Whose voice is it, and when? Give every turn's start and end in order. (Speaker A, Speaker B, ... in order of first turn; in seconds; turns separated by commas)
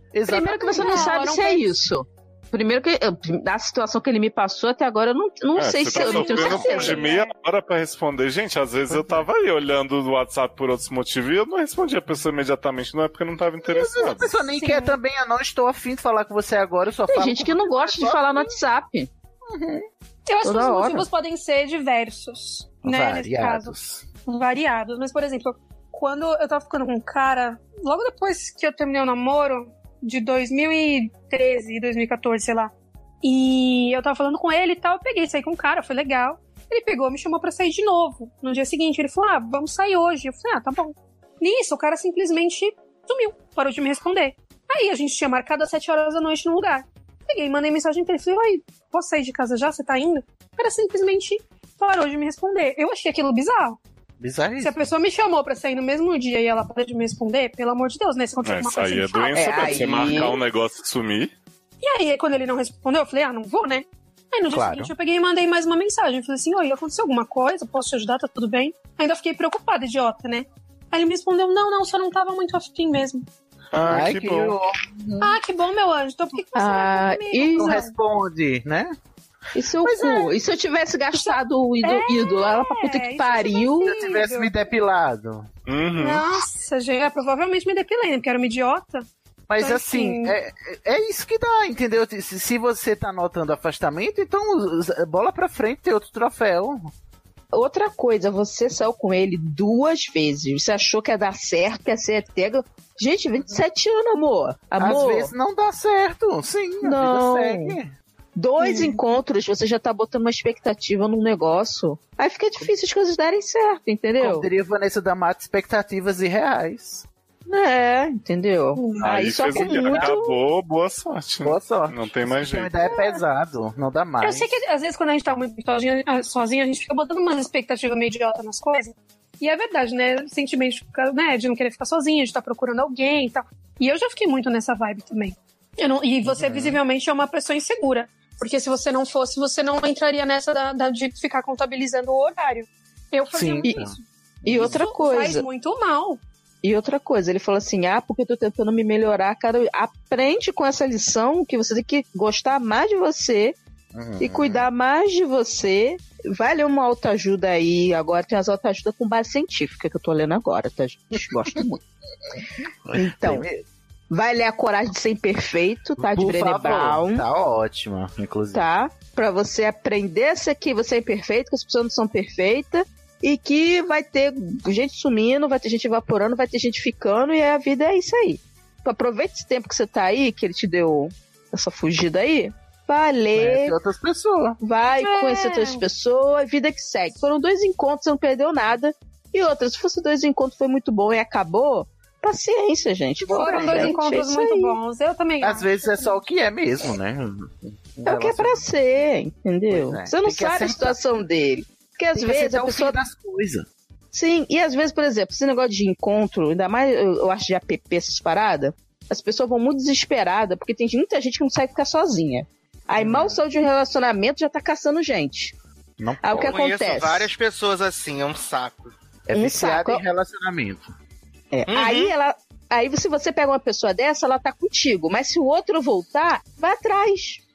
Speaker A: 0.1-1.1, Speaker B: 0.3-7.1, Speaker C: 0.3-1.8, Speaker D: 5.6-14.3, Speaker C: 6.0-7.3, Speaker A: 13.6-18.2, Speaker C: 14.6-15.0, Speaker B: 17.1-19.1, Speaker A: 19.5-19.8, Speaker C: 20.3-23.7, Speaker B: 20.4-21.1, Speaker A: 22.8-24.1, Speaker C: 24.2-53.8, Speaker A: 54.2-54.8, Speaker C: 54.6-60.3, Speaker D: 58.4-61.3, Speaker B: 59.4-60.4, Speaker C: 61.8-73.2, Speaker A: 64.5-64.9, Speaker D: 73.7-74.6, Speaker A: 73.8-75.4, Speaker C: 75.2-77.9, Speaker B: 76.5-77.8, Speaker A: 77.6-78.9, Speaker B: 79.5-83.9, Speaker C: 79.9-80.3, Speaker C: 81.1-84.5, Speaker A: 83.8-85.5, Speaker D: 85.7-86.3, Speaker C: 86.0-90.4, Speaker A: 89.5-96.9, Speaker B: 97.5-105.3, Speaker A: 104.8-107.9, Speaker B: 106.8-107.8, Speaker B: 108.4-114.5, Speaker C: 108.6-109.0, Speaker A: 114.2-117.1, Speaker B: 117.5-120.3, Speaker C: 118.8-119.2, Speaker D: 119.0-122.7, Speaker A: 119.1-120.2, Speaker A: 121.4-124.5, Speaker C: 122.8-123.2, Speaker C: 124.2-144.0, Speaker A: 136.2-136.8, Speaker A: 143.3-143.9, Speaker B: 144.4-145.4, Speaker A: 144.5-144.8, Speaker C: 144.6-146.2, Speaker B: 146.6-153.6, Speaker A: 153.9-154.7, Speaker B: 154.2-161.7, Speaker A: 162.8-163.6, Speaker B: 163.0-163.5, Speaker B: 164.1-167.2, Speaker A: 166.0-168.7, Speaker B: 168.5-183.8, Speaker A: 183.3-184.6, Speaker B: 184.6-194.8, Speaker C: 184.9-185.8, Speaker C: 193.2-196.2, Speaker A: 193.4-193.9, Speaker A: 195.4-198.7, Speaker B: 198.0-203.0, Speaker A: 199.7-201.0, Speaker A: 202.2-203.7, Speaker B: 204.1-215.6, Speaker A: 213.0-213.4, Speaker A: 216.0-216.6, Speaker B: 216.2-217.3, Speaker E: 216.5-218.9, Speaker A: 219.3-220.9, Speaker B: 219.3-220.0, Speaker B: 221.5-227.4, Speaker E: 221.7-222.1